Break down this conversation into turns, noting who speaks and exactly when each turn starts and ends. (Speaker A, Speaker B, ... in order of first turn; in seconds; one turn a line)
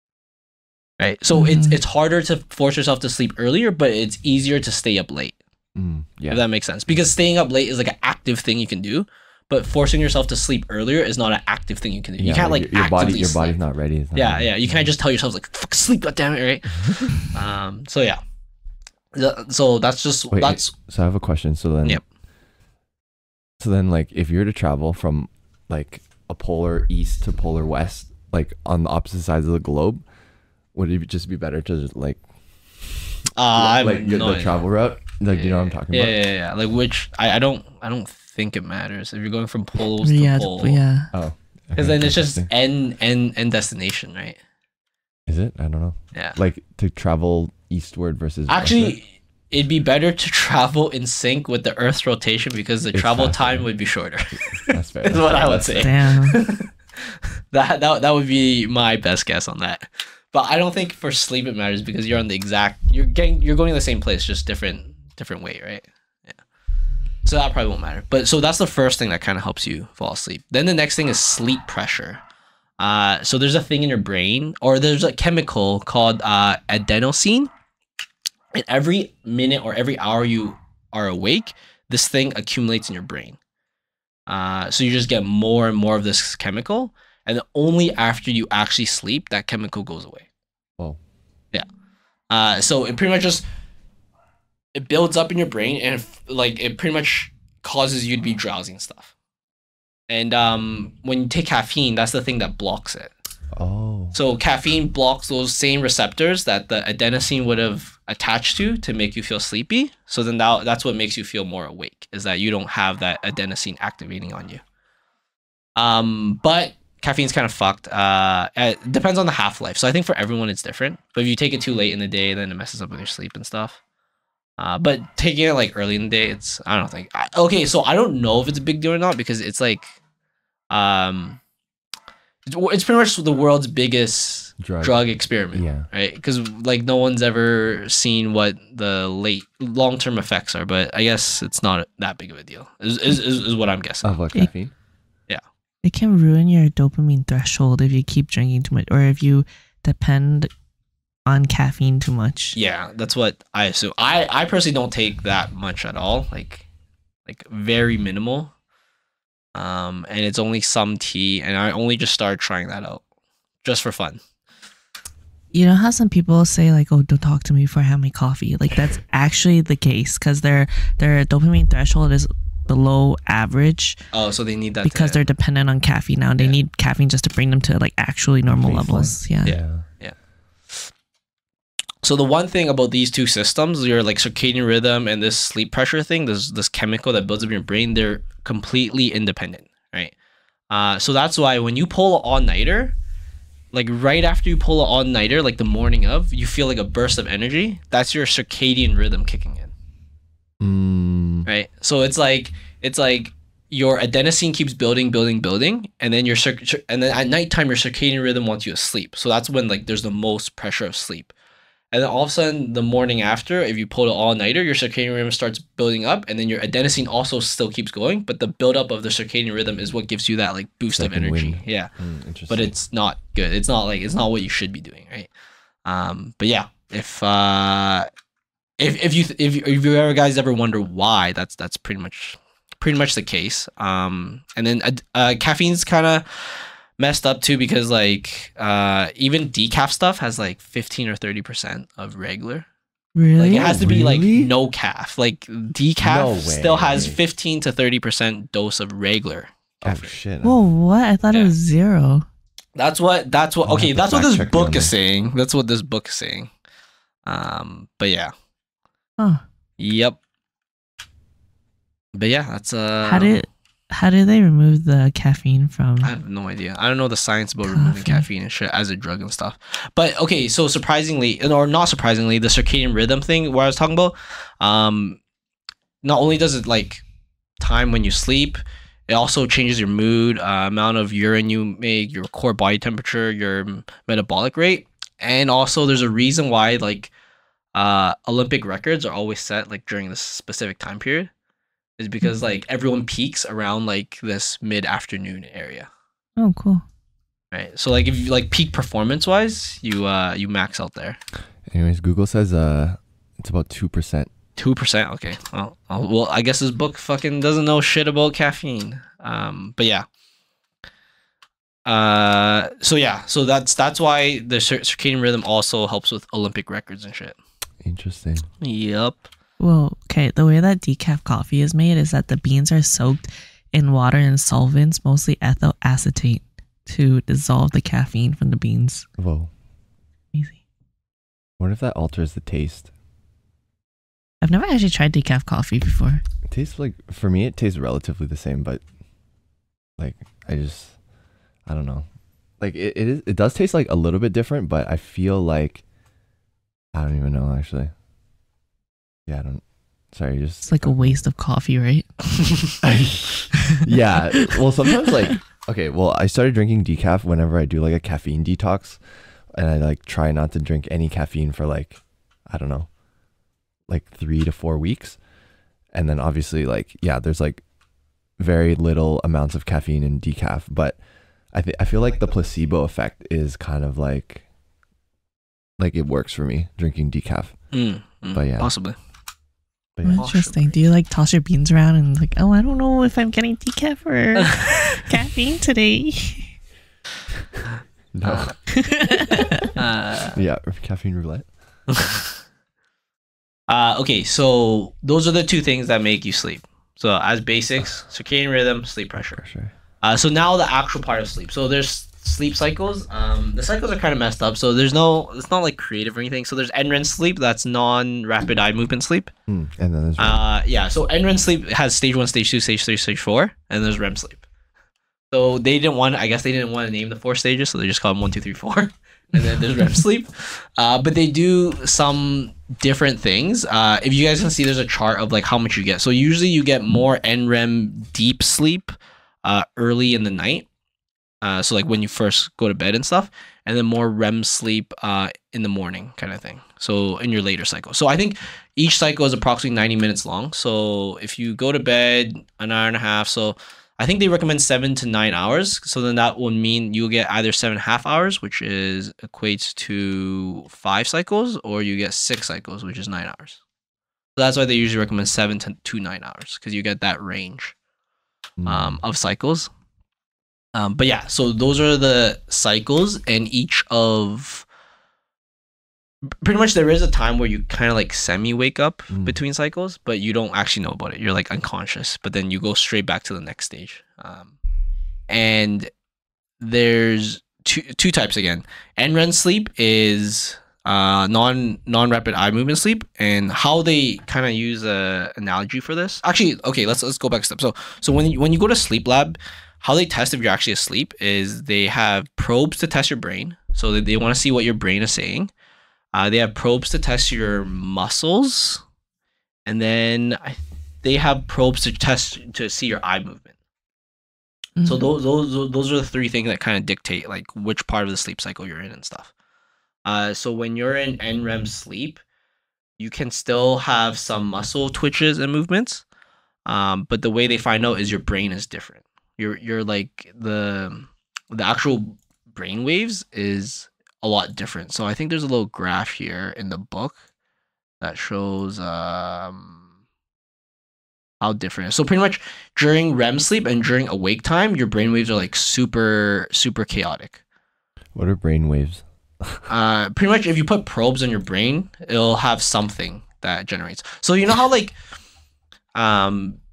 Speaker A: 1.0-5.4
Speaker B: 1.3-1.8
Speaker C: 5.7-7.1
Speaker A: 6.3-13.6
Speaker C: 12.2-14.9
Speaker A: 14.1-18.2
Speaker A: 19.1-20.7
Speaker C: 20.3-22.0
Speaker C: 23.6-30.0
Speaker C: 30.7-32.2
Speaker A: 33.3-34.6
Speaker C: 33.5-36.2
Speaker A: 35.3-40.8
Speaker B: 40.0-41.1
Speaker C: 41.1-42.5
Speaker A: 41.8-44.4
Speaker C: 45.3-49.0
Speaker A: 48.5-65.9
Speaker C: 52.9-53.7
Speaker C: 54.4-55.9
Speaker B: 55.8-56.4
Speaker A: 67.2-72.2
Speaker A: 72.8-77.5
Speaker A: 78.5-83.4
Speaker A: 84.3-90.3
Speaker A: 92.3-93.5
Speaker A: 94.7-99.1
Speaker A: 100.1-103.1
Speaker C: 103.5-104.1
Speaker A: 104.1-114.6
Speaker A: 115.8-123.8
Speaker A: 124.6-129.9
Speaker A: 130.7-131.4
Speaker A: 132.5-144.2
Speaker C: 134.6-135.9
Speaker C: 144.0-144.7
Speaker B: 145.8-150.5
Speaker B: 151.3-152.6
Speaker A: 152.5-156.6
Speaker A: 157.3-158.5
Speaker A: 159.5-163.0
Speaker A: 163.6-164.2
Speaker B: 165.5-174.0
Speaker A: 174.1-175.2
Speaker B: 174.8-179.6
Speaker C: 178.5-179.8
Speaker A: 179.4-180.2
Speaker A: 182.0-190.1
Speaker A: 190.7-192.9
Speaker A: 193.7-199.7
Speaker C: 200.6-201.5
Speaker A: 201.4-211.3
Speaker A: 211.9-221.9
Speaker C: 220.9-222.7
Speaker A: 222.5-225.3
Speaker A: 225.8-228.1
Speaker A: 228.8-242.7
Speaker B: 243.1-243.8
Speaker A: 243.3-250.1
Speaker C: 243.4-244.5
Speaker C: 246.0-247.2
Speaker C: 249.8-250.6
Speaker B: 250.4-252.2
Speaker A: 252.8-256.5
Speaker C: 253.7-254.9
Speaker A: 257.2-258.3
Speaker A: 259.8-260.2
Speaker A: 262.1-263.4
Speaker B: 263.0-266.1
Speaker A: 266.0-275.2
Speaker B: 267.7-268.2
Speaker A: 276.0-277.0
Speaker A: 277.6-287.1
Speaker A: 287.7-291.3
Speaker A: 292.0-295.9
Speaker B: 296.4-296.8
Speaker A: 297.5-301.2
Speaker C: 301.7-304.3
Speaker A: 304.6-310.1
Speaker A: 311.9-317.4
Speaker C: 317.8-318.5
Speaker A: 318.6-319.3
Speaker B: 319.6-329.1
Speaker C: 329.2-329.5
Speaker B: 330.3-330.6
Speaker C: 331.6-332.9
Speaker B: 334.4-336.2
Speaker C: 336.5-338.8
Speaker C: 340.0-340.9
Speaker C: 341.6-342.1
Speaker C: 342.6-345.8
Speaker C: 346.9-347.9
Speaker C: 349.3-351.2
Speaker B: 350.6-352.6
Speaker C: 352.8-359.0
Speaker C: 359.5-362.9
Speaker C: 363.9-365.2
Speaker C: 365.9-367.6
Speaker C: 368.4-371.0
Speaker C: 371.5-374.4
Speaker C: 375.8-377.6
Speaker A: 377.7-379.0
Speaker C: 378.3-378.7
Speaker C: 379.9-380.3
Speaker B: 380.0-386.5
Speaker A: 380.1-380.7
Speaker A: 384.4-384.9
Speaker C: 388.1-388.7
Speaker A: 388.2-388.5
Speaker B: 388.7-389.7
Speaker A: 389.8-390.4
Speaker C: 390.3-391.5
Speaker A: 391.9-392.3
Speaker A: 393.7-399.4
Speaker C: 399.1-399.7
Speaker A: 400.0-409.3
Speaker C: 409.5-410.4
Speaker A: 410.2-414.4
Speaker A: 415.3-430.7
Speaker A: 431.4-453.6
Speaker A: 454.4-457.8
Speaker C: 458.6-459.0
Speaker A: 458.6-459.7
Speaker A: 460.7-464.6
Speaker A: 466.4-474.5
Speaker C: 469.1-469.4
Speaker A: 475.3-475.9
Speaker A: 476.6-495.5
Speaker A: 496.1-498.8
Speaker A: 499.6-503.5
Speaker B: 504.8-505.1
Speaker A: 504.8-509.3
Speaker A: 510.1-512.2
Speaker A: 513.0-516.0
Speaker A: 516.6-527.2
Speaker A: 528.0-529.8
Speaker A: 531.4-537.4
Speaker C: 538.1-539.6
Speaker A: 539.7-545.0
Speaker A: 545.9-546.6